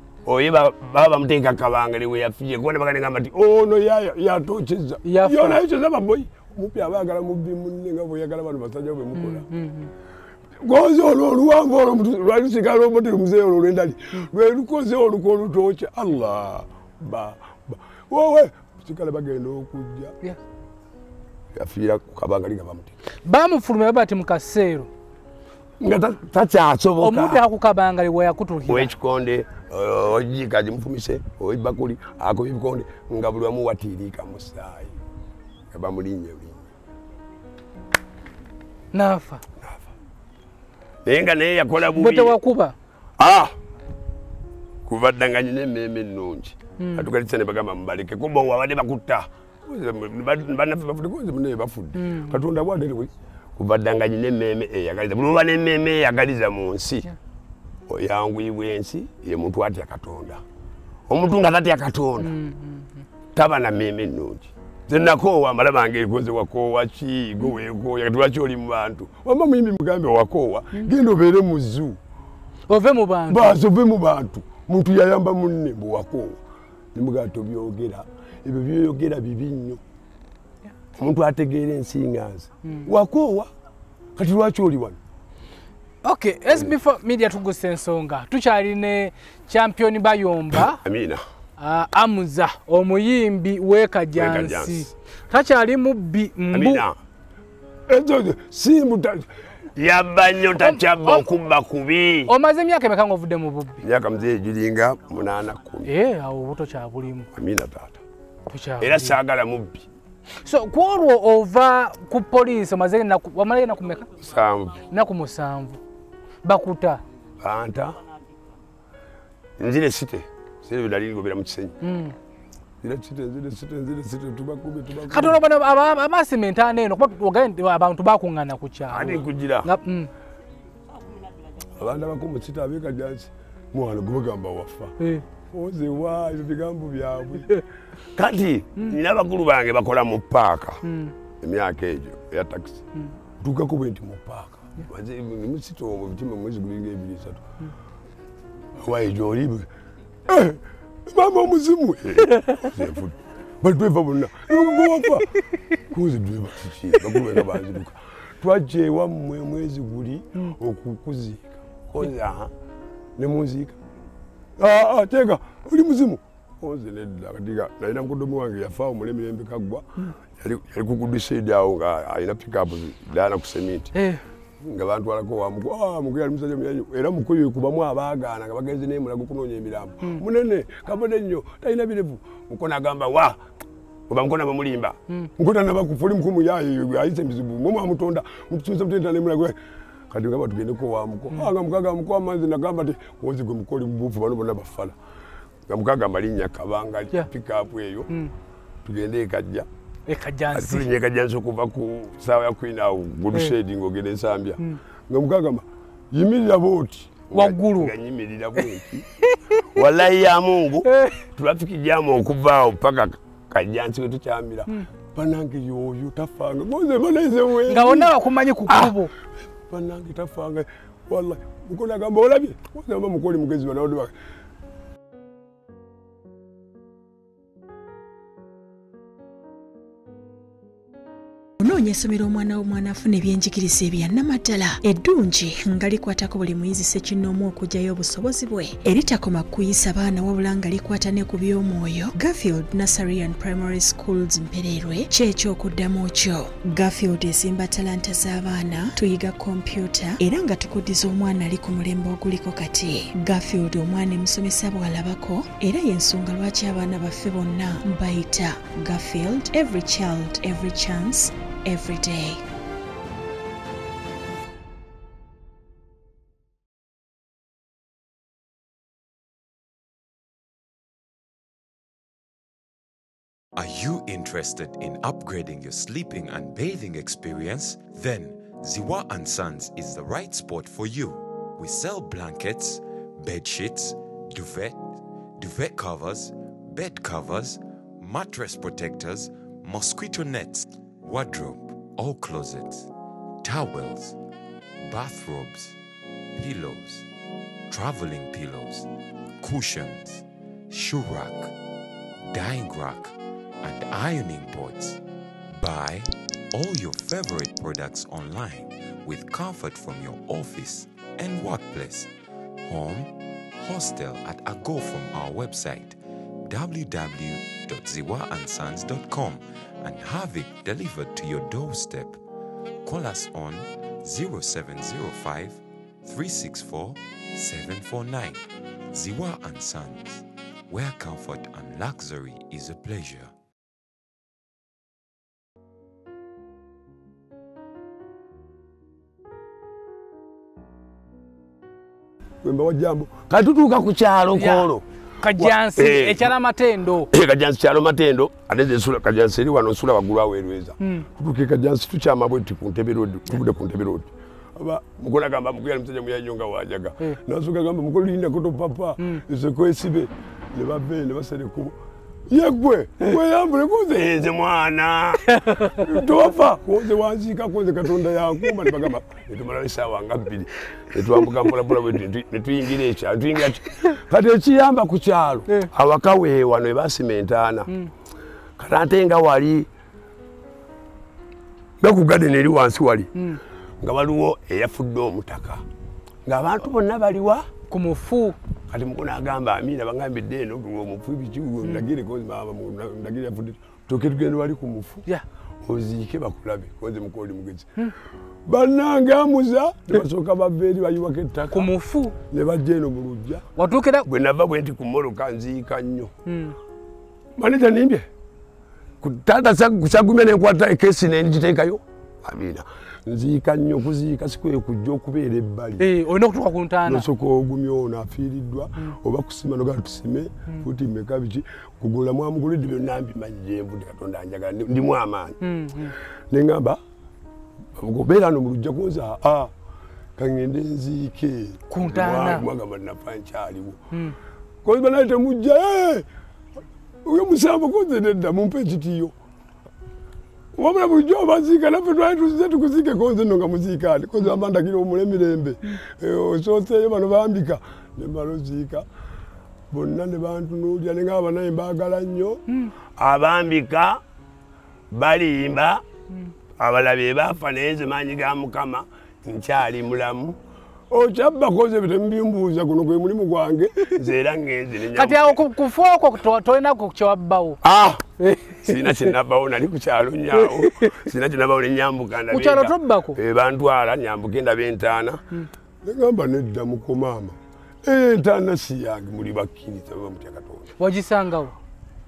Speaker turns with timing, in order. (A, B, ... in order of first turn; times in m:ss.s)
0:00.2-0:09.5 A
0:05.0-0:05.6 B
0:09.2-0:09.9 B
0:10.6-0:20.2 A
0:21.5-0:22.9 A
0:23.2-0:24.9 B
0:25.8-0:27.4 A
0:27.0-0:28.9 B
0:28.7-0:35.0 A
0:35.7-0:36.7 A
0:38.9-0:39.4 B
0:41.0-0:42.4 A
0:42.0-0:42.8 B
0:43.2-0:43.5 A
0:44.9-0:57.1 A
0:46.8-0:47.1 B
0:52.0-0:52.4 B
0:57.9-1:00.4 A
1:01.1-1:02.3 A
1:02.2-1:03.1 B
1:03.4-1:12.0 A
1:12.7-1:13.6 B
1:13.3-1:16.4 A
1:16.9-1:19.8 A
1:21.0-1:23.5 A
1:22.6-1:22.9 B
1:24.2-1:25.0 A
1:26.0-1:30.8 B
1:30.5-1:31.2 A
1:31.6-1:36.9 B
1:34.2-1:34.9 A
1:36.5-1:37.0 A
1:37.9-1:42.3 A
1:40.6-1:41.3 B
1:42.3-1:43.8 B
1:43.8-1:45.9 A
1:45.9-1:47.3 B
1:47.3-1:48.0 A
1:48.5-1:49.2 B
1:48.8-1:49.9 A
1:50.4-1:54.1 B
1:54.2-1:54.8 A
1:54.9-1:55.8 B
1:56.4-1:57.0 B
1:57.4-1:58.0 A
1:59.6-2:01.8 A
2:01.8-2:02.1 B
2:02.8-2:05.4 A
2:05.1-2:10.1 B
2:08.9-2:09.7 A
2:11.8-2:15.0 A
2:15.5-2:17.6 A
2:18.2-2:20.8 A
2:20.8-2:21.1 B
2:21.4-2:22.8 A
2:23.4-2:27.4 A
2:28.8-2:29.7 A
2:30.3-2:42.5 A
2:32.4-2:32.7 B
2:43.2-2:43.8 A
2:44.6-2:49.9 A
2:50.4-2:53.9 A
2:53.9-2:54.2 B
2:54.6-3:03.4 A
3:04.1-3:09.6 A
3:10.1-3:15.0 A
3:15.7-3:18.1 A
3:18.8-3:19.7 A
3:20.1-3:20.9 B
3:20.5-3:29.1 A
3:27.3-3:27.9 B
3:29.3-3:29.6 B
3:29.6-3:39.0 A
3:30.8-3:31.2 B
3:37.7-3:39.1 B
3:39.7-3:44.1 A
3:51.6-4:22.4 C
4:33.6-4:52.9 D
4:53.4-4:54.2 D
4:54.8-4:55.8 D
4:56.4-4:57.1 D
4:57.7-4:58.9 D
4:59.4-5:01.5 D
5:02.3-5:05.0 D
5:05.6-5:12.1 D
5:12.6-5:16.0 D
5:16.5-5:22.2 D
5:22.8-5:33.3 D
5:42.4-5:44.8 A
5:44.4-5:44.7 B
5:45.2-5:47.1 B
5:45.4-5:46.3 A
5:47.1-6:01.8 A
5:50.8-5:51.1 B
6:02.3-6:17.7 A
6:05.3-6:06.0 B
6:18.6-6:19.7 A
6:21.8-6:23.1 A
6:23.8-6:25.6 A
6:26.2-6:27.5 A
6:27.7-6:28.4 B
6:28.7-6:35.1 A
6:35.6-6:37.7 A
6:38.5-6:41.7 A
6:41.5-6:42.2 B
6:42.3-6:43.4 A
6:43.6-6:44.1 B
6:44.0-6:46.1 A
6:46.3-6:46.6 B
6:47.4-6:48.1 A
6:49.0-6:55.9 A
6:55.8-6:57.1 B
6:56.8-7:05.4 A
7:05.4-7:06.0 B
7:06.3-7:06.8 A
7:07.8-7:09.5 A
7:10.2-7:13.8 A
7:11.7-7:12.5 B
7:14.6-7:16.1 A
7:17.0-7:19.1 A
7:20.6-7:28.9 A
7:29.7-7:32.4 A
7:33.0-7:34.0 A
7:34.9-7:35.8 A
7:36.6-7:40.4 A
7:40.9-7:45.4 A
7:44.9-7:47.6 B
7:47.6-7:48.0 A
7:48.2-7:49.1 B
7:48.6-7:55.2 A
7:50.4-7:51.0 B
7:52.3-7:53.2 B
7:55.8-8:00.7 A
8:00.8-8:01.6 B